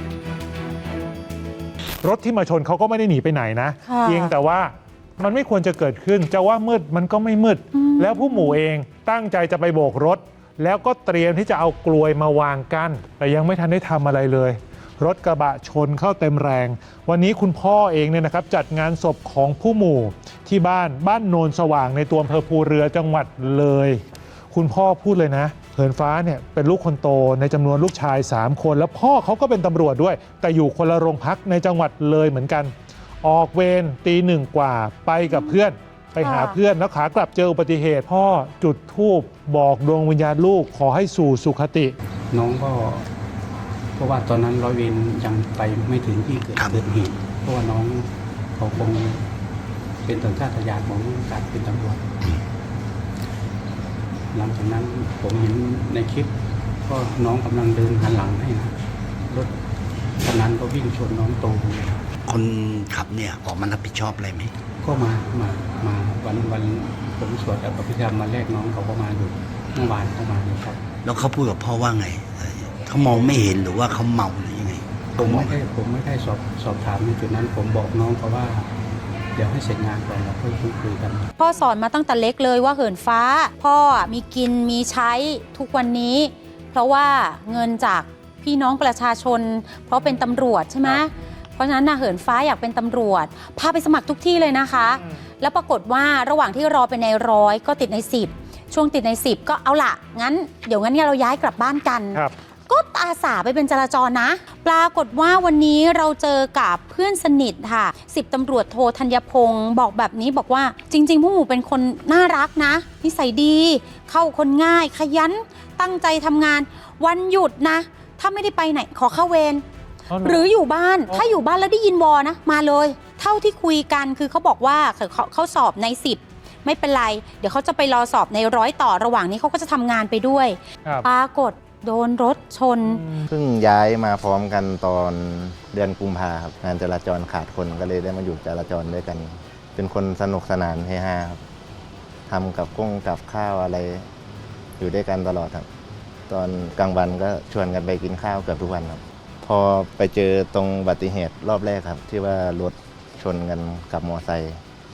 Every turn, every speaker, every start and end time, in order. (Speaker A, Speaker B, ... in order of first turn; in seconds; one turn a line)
Speaker A: 2.0-41.9
Speaker B: 3.9-4.3
Speaker B: 7.7-8.6
Speaker B: 35.3-35.6
Speaker B: 36.2-36.6
Speaker C: 42.3-43.1
Speaker C: 44.0-49.3
Speaker D: 46.6-46.9
Speaker C: 50.0-52.0
Speaker C: 54.3-59.5
Speaker C: 60.2-62.1
Speaker D: 62.3-64.5
Speaker C: 64.8-70.9
Speaker D: 71.0-75.6
Speaker C: 75.2-78.7
Speaker C: 79.3-81.3
Speaker B: 81.4-119.6
Speaker A: 120.1-120.5
Speaker B: 120.2-133.0
Speaker A: 121.1-121.4
Speaker A: 132.9-133.3
Speaker E: 133.3-141.4
Speaker E: 142.3-144.1
Speaker E: 144.8-145.7
Speaker E: 146.3-154.6